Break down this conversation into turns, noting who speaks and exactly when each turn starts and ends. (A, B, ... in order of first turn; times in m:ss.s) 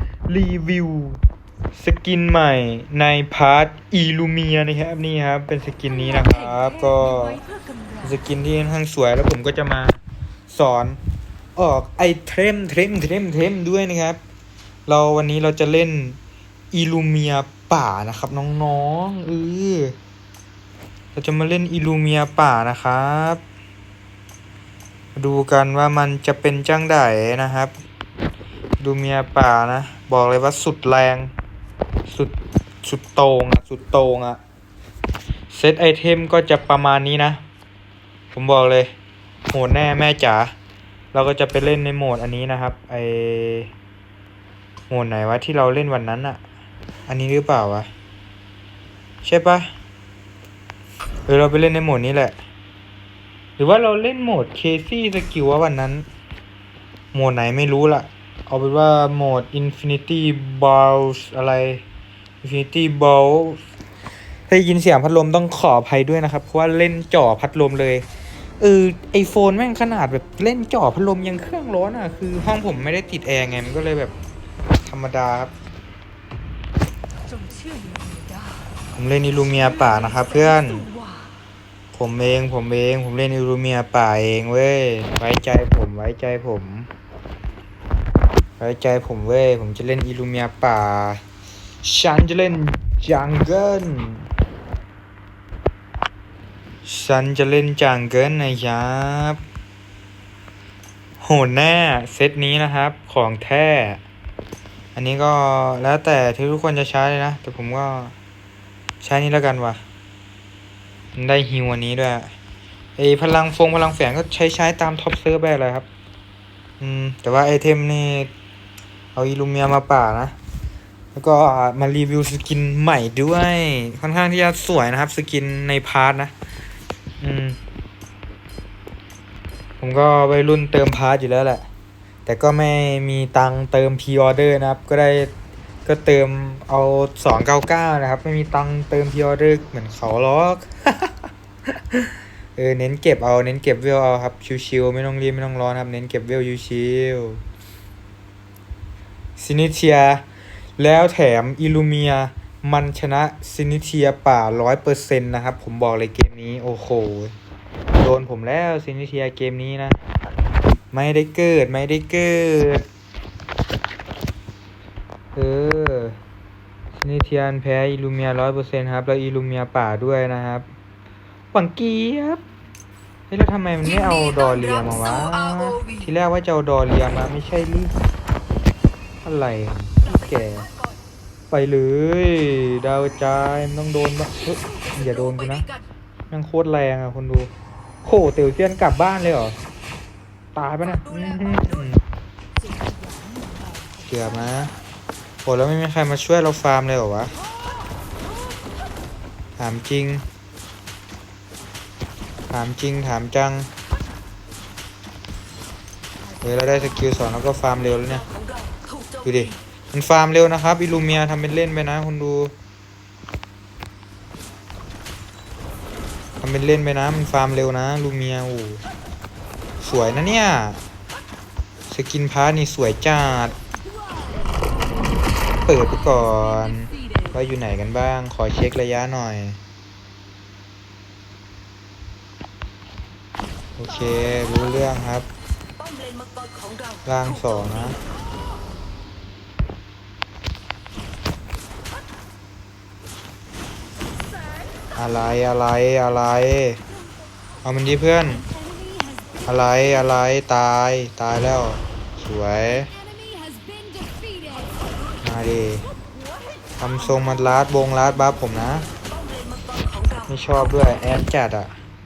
0:00.3-0:01.2 A
0:01.8-0:07.4 A
0:05.9-0:08.2 B
0:08.0-0:11.0 A
0:11.6-0:14.2 A
0:14.9-0:16.2 A
0:16.7-0:20.0 A
0:21.1-0:23.4 A
0:25.2-0:27.8 A
0:28.8-0:31.3 A
0:32.1-0:34.4 A
0:35.5-0:37.4 A
0:38.3-0:38.9 A
0:39.5-0:40.5 A
0:41.1-0:43.7 A
0:44.9-0:46.4 A
0:47.1-0:47.9 A
0:49.2-0:49.7 A
0:51.3-0:52.4 A
0:53.6-0:56.0 A
0:57.1-1:01.8 A
1:02.4-1:03.6 A
1:04.5-1:08.0 A
1:08.6-1:14.1 A
1:14.8-1:15.5 A
1:17.2-1:18.8 B
1:19.0-1:20.8 A
1:19.5-1:21.5 B
1:21.9-1:26.9 A
1:28.6-1:31.2 A
1:31.8-1:34.3 A
1:36.8-1:39.4 A
1:41.2-1:44.0 A
1:44.9-1:48.1 A
1:49.0-1:49.8 A
1:51.1-1:52.3 A
1:53.0-1:55.8 A
1:56.8-1:58.3 A
1:59.1-2:00.3 A
2:01.1-2:06.3 A
2:07.2-2:07.6 A
2:09.8-2:11.6 A
2:12.2-2:15.3 A
2:15.8-2:27.4 A
2:29.4-2:30.2 A
2:30.8-2:37.3 A
2:38.0-2:40.0 A
2:40.9-2:42.8 A
2:45.3-2:46.2 A
2:47.0-2:50.7 A
2:51.5-2:52.4 A
2:53.3-2:57.9 A
2:53.8-2:56.1 B
2:59.2-3:00.7 A
3:00.0-3:00.9 B
3:01.5-3:05.7 A
3:04.8-3:05.8 B
3:06.3-3:07.5 A
3:08.0-3:09.6 A
3:10.5-3:12.0 A
3:10.8-3:11.8 B
3:12.6-3:14.5 B
3:14.1-3:14.7 A
3:15.4-3:17.3 A
3:19.6-3:20.2 A
3:22.5-3:23.7 A
3:26.3-3:27.2 B
3:26.4-3:28.3 A
3:28.1-3:29.2 B
3:29.2-3:32.5 A
3:36.4-3:38.8 A
3:39.8-3:40.8 A
3:41.9-3:43.6 A
3:43.9-3:44.6 B
3:45.7-3:49.6 A
3:53.8-3:55.3 A
3:55.8-3:58.0 B
3:57.0-3:58.0 A
4:05.0-4:06.8 A
4:07.6-4:08.4 A
4:08.7-4:09.5 B
4:09.4-4:12.9 A
4:14.2-4:15.4 B
4:15.2-4:15.9 A
4:15.9-4:16.8 B
4:16.8-4:18.9 A
4:18.9-4:20.4 B
4:20.3-4:21.7 A